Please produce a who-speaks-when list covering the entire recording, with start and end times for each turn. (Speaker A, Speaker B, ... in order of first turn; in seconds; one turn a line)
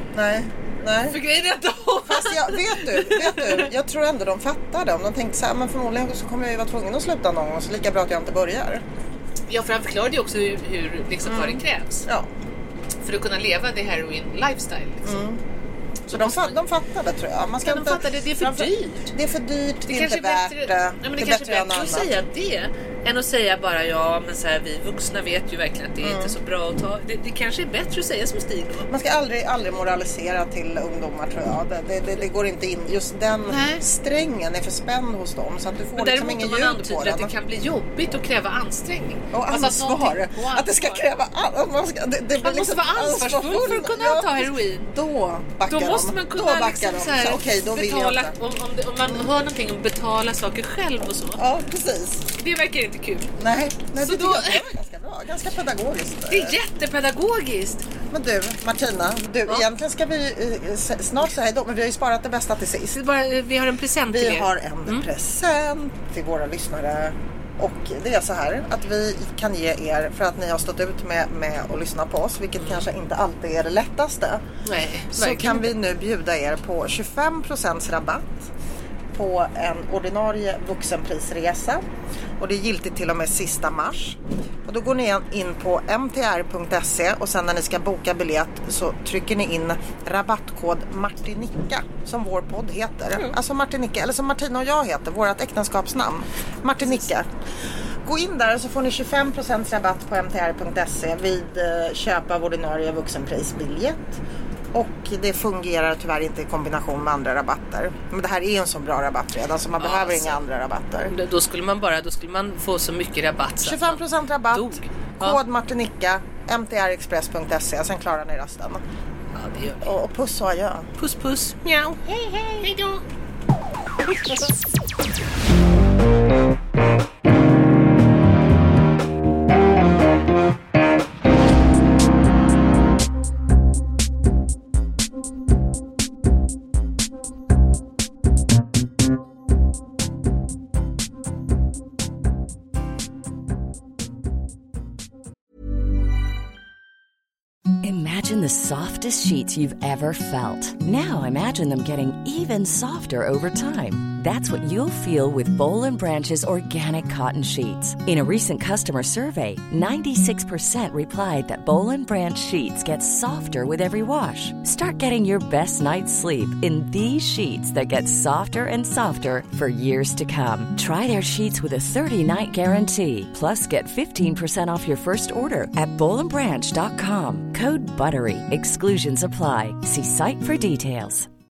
Speaker A: 0.1-1.2
Speaker B: 1.1-3.7
Speaker A: 2.0-8.8
Speaker B: 9.5-12.1
Speaker A: 11.2-12.3
Speaker B: 13.0-15.2
Speaker A: 15.0-15.4
Speaker B: 16.1-16.6
Speaker A: 16.1-22.1
Speaker B: 17.6-19.1
Speaker B: 19.9-28.9
Speaker A: 26.0-26.4
Speaker A: 28.9-37.3
Speaker B: 33.5-33.8
Speaker B: 36.0-41.1
Speaker A: 39.3-48.3
Speaker B: 42.4-44.9
Speaker B: 45.7-51.4
Speaker A: 49.1-49.3
Speaker A: 51.4-52.3
Speaker B: 52.4-53.3
Speaker A: 53.4-56.6
Speaker B: 54.0-54.7
Speaker B: 56.3-57.9
Speaker A: 58.1-63.0
Speaker B: 62.9-65.1
Speaker A: 64.1-74.4
Speaker B: 72.6-72.9
Speaker B: 74.7-75.7
Speaker A: 75.1-78.5
Speaker A: 79.2-81.8
Speaker A: 82.4-97.3
Speaker A: 98.0-104.2
Speaker A: 104.7-111.1
Speaker B: 109.8-110.4
Speaker B: 111.0-115.4
Speaker A: 113.6-118.8
Speaker B: 119.3-119.9
Speaker A: 119.8-120.9
Speaker B: 121.0-123.0
Speaker A: 122.0-122.7
Speaker C: 147.8-181.3